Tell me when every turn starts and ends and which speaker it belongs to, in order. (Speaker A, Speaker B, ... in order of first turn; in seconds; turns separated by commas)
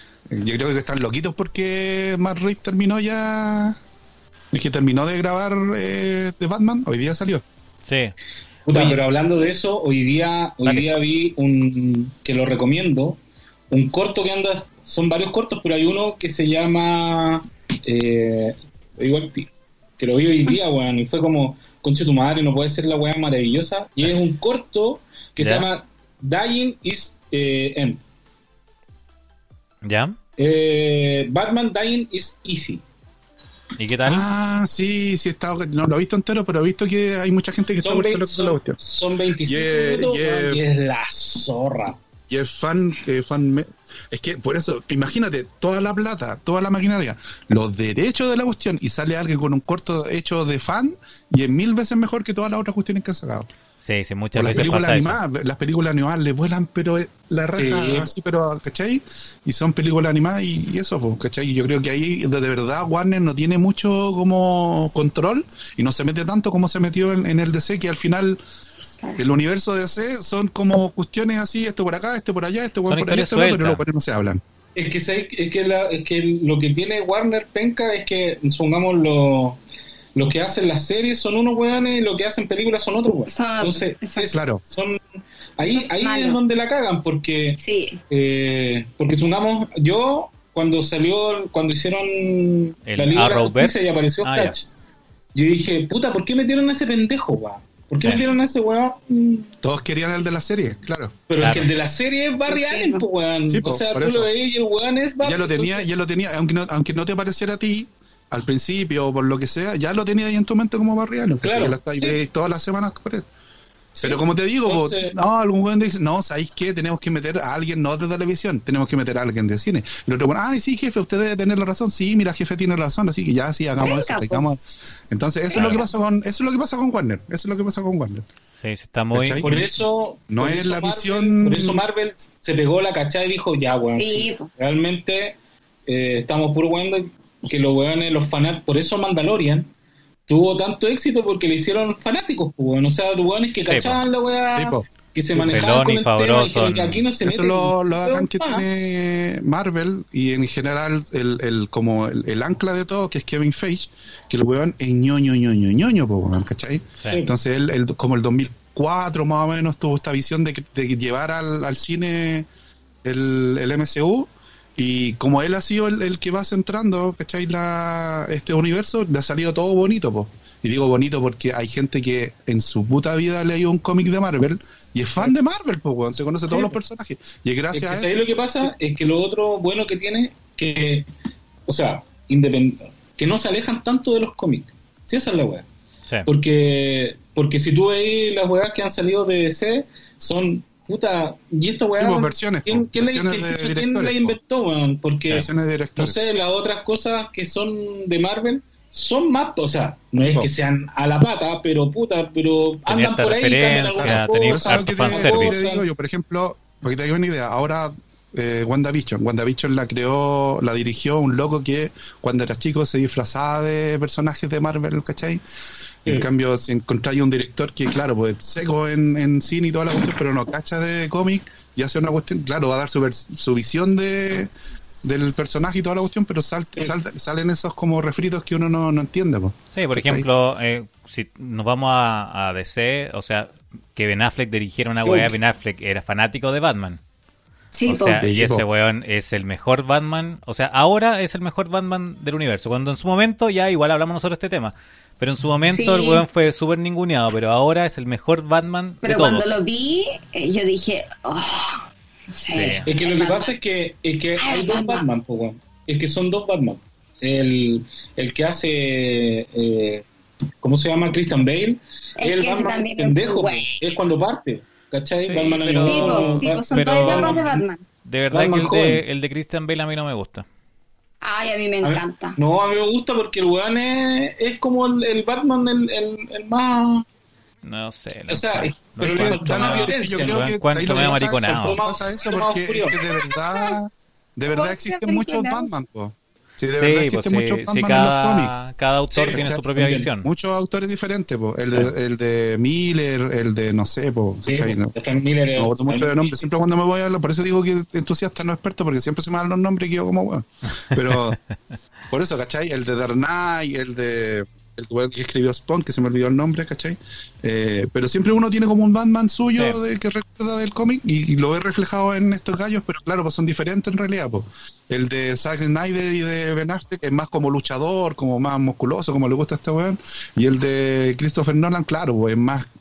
Speaker A: 0.3-3.8, Speaker A: 4.5-7.4, Speaker B: 7.8-8.1, Speaker C: 8.7-13.2, Speaker B: 8.7-9.0, Speaker B: 10.6-11.0, Speaker C: 13.7-28.0, Speaker B: 25.4-25.6, Speaker B: 29.8-30.2, Speaker C: 30.4-32.8, Speaker B: 33.8-34.2, Speaker A: 34.0-38.8, Speaker C: 37.8-42.0, Speaker A: 39.5-40.6, Speaker A: 42.3-53.5, Speaker B: 53.8-55.2, Speaker A: 54.4-68.4, Speaker C: 57.5-58.1, Speaker A: 69.2-74.4, Speaker B: 72.9-73.8, Speaker C: 74.8-79.6, Speaker C: 80.1-85.0, Speaker D: 83.3-84.3, Speaker A: 84.3-84.6, Speaker C: 85.6-87.6, Speaker D: 85.7-86.4, Speaker D: 87.6-88.0, Speaker C: 88.1-94.7, Speaker B: 92.9-94.6, Speaker C: 95.3-99.5, Speaker A: 99.6-101.2, Speaker C: 101.3-105.9, Speaker B: 101.4-101.7, Speaker D: 102.5-103.0, Speaker A: 103.5-104.3, Speaker A: 105.2-113.2, Speaker C: 111.4-112.2, Speaker A: 113.9-128.2, Speaker C: 114.0-115.2, Speaker D: 123.8-124.5, Speaker B: 125.5-125.9, Speaker B: 128.6-129.6, Speaker A: 129.1-129.6, Speaker C: 129.4-135.4, Speaker A: 130.3-131.8, Speaker D: 134.0-134.5, Speaker C: 135.9-139.7, Speaker C: 140.3-148.7, Speaker B: 143.6-144.0, Speaker A: 144.6-144.9, Speaker B: 145.3-147.1, Speaker A: 147.2-162.5, Speaker A: 163.0-178.2, Speaker C: 176.5-176.8, Speaker C: 177.7-181.1, Speaker C: 181.7-185.7, Speaker C: 186.3-205.9, Speaker A: 192.0-194.4, Speaker A: 195.3-196.2, Speaker A: 200.2-200.5, Speaker B: 202.9-205.6, Speaker A: 204.0-215.4, Speaker A: 216.0-224.5, Speaker A: 225.0-230.2, Speaker B: 229.7-237.0, Speaker C: 235.0-235.3, Speaker D: 237.7-238.2, Speaker B: 237.9-249.6, Speaker A: 238.2-238.6, Speaker D: 245.7-246.2, Speaker D: 249.0-253.5, Speaker B: 252.5-252.8, Speaker C: 252.8-260.1, Speaker D: 254.4-255.0, Speaker C: 260.6-267.6, Speaker D: 262.2-263.7, Speaker B: 265.1-270.5, Speaker D: 265.9-267.8, Speaker C: 268.3-269.0, Speaker D: 271.2-272.4, Speaker C: 271.8-277.0, Speaker B: 277.6-281.8, Speaker C: 278.3-283.0, Speaker A: 279.0-288.5, Speaker D: 283.0-283.8, Speaker D: 284.5-285.7, Speaker B: 286.7-290.3, Speaker C: 289.1-290.1, Speaker A: 289.2-289.6, Speaker A: 290.2-294.9, Speaker C: 294.5-296.4, Speaker A: 295.6-301.4, Speaker B: 300.9-301.3, Speaker A: 302.1-322.7